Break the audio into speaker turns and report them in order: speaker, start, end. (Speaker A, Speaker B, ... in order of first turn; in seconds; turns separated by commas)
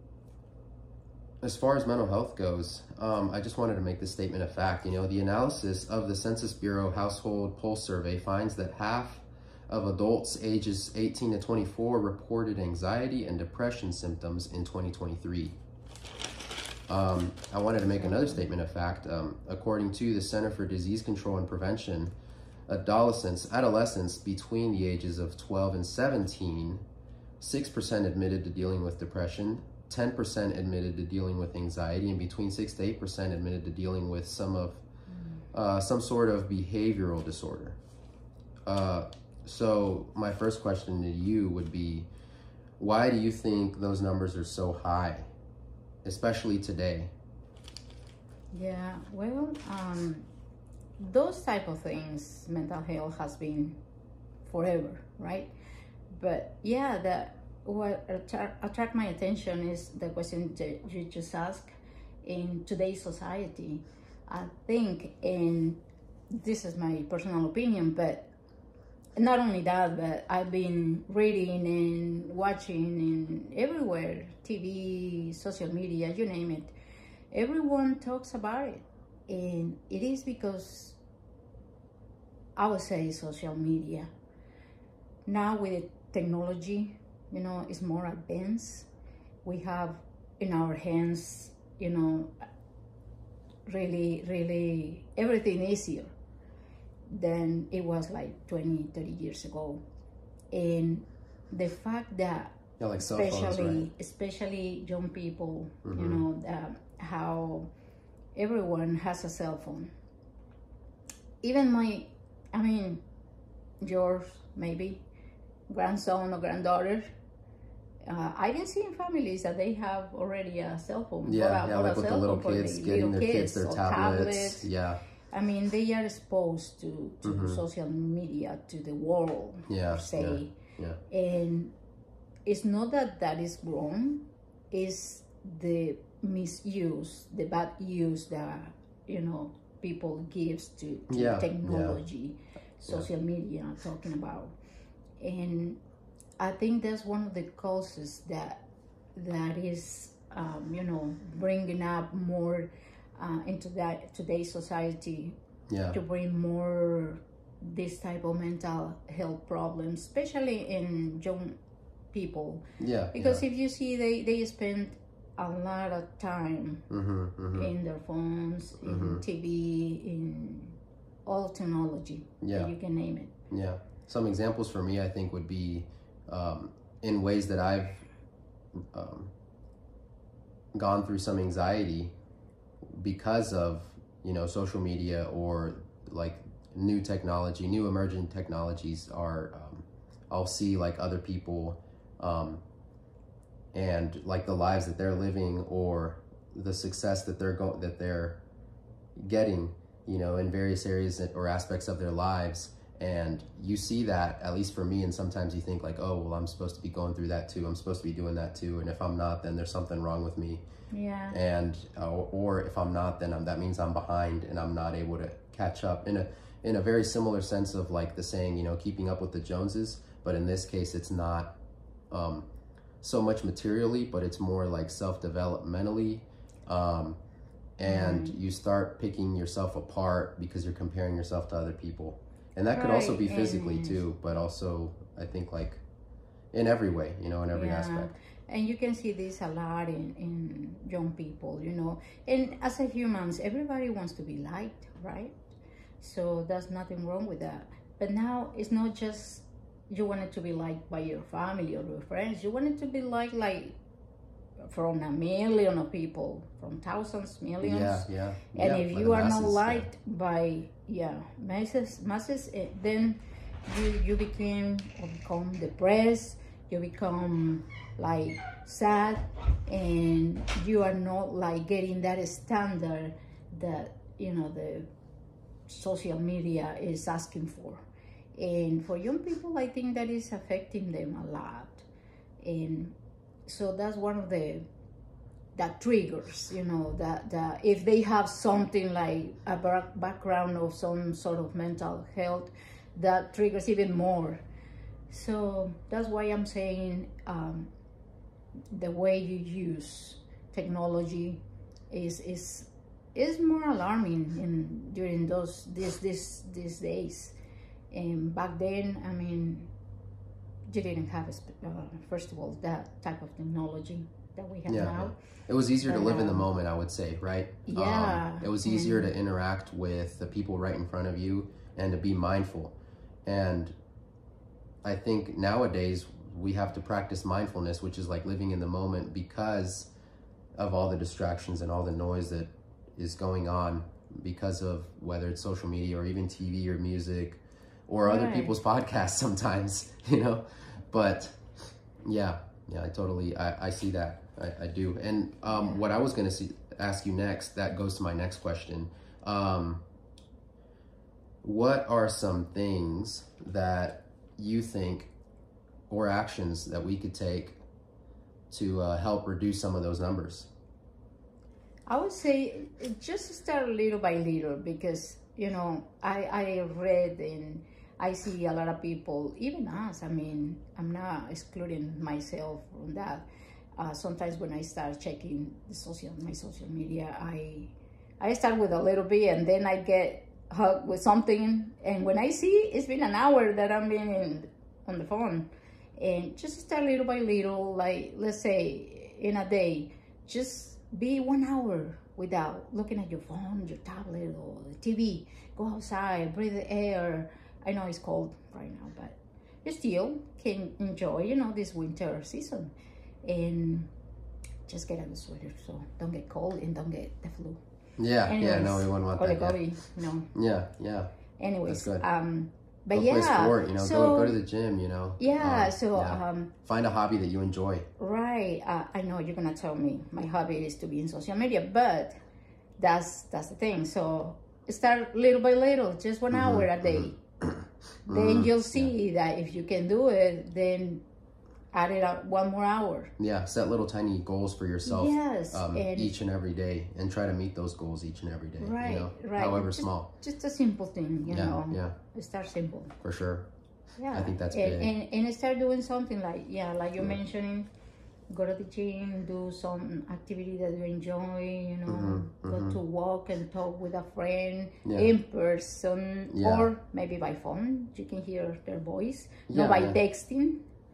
Speaker A: 1.4-15.6, Speaker A: 16.9-22.1, Speaker B: 17.9-18.5, Speaker A: 22.7-26.8, Speaker A: 27.4-34.8, Speaker A: 35.5-37.8, Speaker A: 38.7-42.1, Speaker A: 42.8-45.3, Speaker A: 46.0-47.1, Speaker B: 48.5-50.3, Speaker B: 51.0-53.8, Speaker B: 54.5-55.5, Speaker B: 56.1-68.3, Speaker B: 69.2-76.7, Speaker B: 77.3-81.0, Speaker B: 82.6-84.1, Speaker B: 85.3-88.9, Speaker B: 89.4-92.4, Speaker B: 93.7-96.1, Speaker B: 97.1-99.8, Speaker B: 100.5-107.7, Speaker A: 102.8-103.9, Speaker A: 105.8-106.2, Speaker B: 108.3-109.9, Speaker B: 111.4-113.0, Speaker B: 113.8-115.0, Speaker B: 115.7-117.1, Speaker B: 118.0-124.7, Speaker A: 121.3-125.0, Speaker B: 125.3-130.6, Speaker A: 127.2-127.6, Speaker A: 129.7-131.0, Speaker B: 131.1-131.7, Speaker B: 132.4-144.5, Speaker A: 141.1-142.0, Speaker B: 145.2-145.8, Speaker B: 146.4-148.6, Speaker B: 149.2-155.4, Speaker A: 155.7-156.0, Speaker B: 155.9-161.6, Speaker B: 162.1-166.8, Speaker A: 162.8-163.4, Speaker A: 166.9-167.7, Speaker B: 167.5-173.3, Speaker A: 168.8-169.2, Speaker A: 172.4-172.7, Speaker A: 173.5-178.1, Speaker A: 178.9-179.3, Speaker A: 180.7-182.1, Speaker A: 182.9-192.6, Speaker A: 193.7-198.4, Speaker A: 199.2-210.6, Speaker B: 210.9-211.4, Speaker A: 211.3-221.6, Speaker A: 222.1-222.5, Speaker A: 223.0-227.2, Speaker A: 227.8-235.8, Speaker B: 227.8-228.4, Speaker B: 232.7-234.0, Speaker A: 236.5-238.1, Speaker B: 237.5-245.5, Speaker B: 246.0-253.8, Speaker B: 254.6-274.9, Speaker A: 257.6-259.9, Speaker B: 275.7-281.9, Speaker B: 282.4-282.9, Speaker B: 283.5-284.7, Speaker B: 285.6-294.4, Speaker B: 295.1-297.7, Speaker B: 298.7-307.4, Speaker B: 307.9-309.7, Speaker B: 310.7-315.2, Speaker A: 314.7-323.7, Speaker B: 315.8-316.5, Speaker B: 317.7-319.1, Speaker A: 324.8-329.9, Speaker A: 330.6-341.4, Speaker B: 338.1-338.6, Speaker A: 342.0-349.8, Speaker B: 345.5-345.8, Speaker A: 351.4-355.1, Speaker A: 355.9-357.6, Speaker A: 358.5-360.5, Speaker B: 361.9-403.9, Speaker B: 404.7-407.6, Speaker A: 408.0-409.6, Speaker B: 408.3-410.3, Speaker A: 410.3-411.1, Speaker B: 411.4-414.4, Speaker A: 411.7-412.0, Speaker A: 412.9-417.9, Speaker B: 415.2-416.5, Speaker B: 418.0-422.2, Speaker B: 422.8-427.2, Speaker A: 426.3-428.9, Speaker B: 428.1-431.0, Speaker B: 431.7-433.1, Speaker A: 433.2-440.1, Speaker B: 434.9-436.1, Speaker B: 438.6-442.9, Speaker A: 441.3-442.0, Speaker A: 443.0-443.5, Speaker B: 444.0-447.7, Speaker A: 444.1-444.9, Speaker B: 448.3-460.6, Speaker A: 451.9-452.8, Speaker A: 454.8-455.1, Speaker A: 456.3-456.7, Speaker A: 459.5-460.0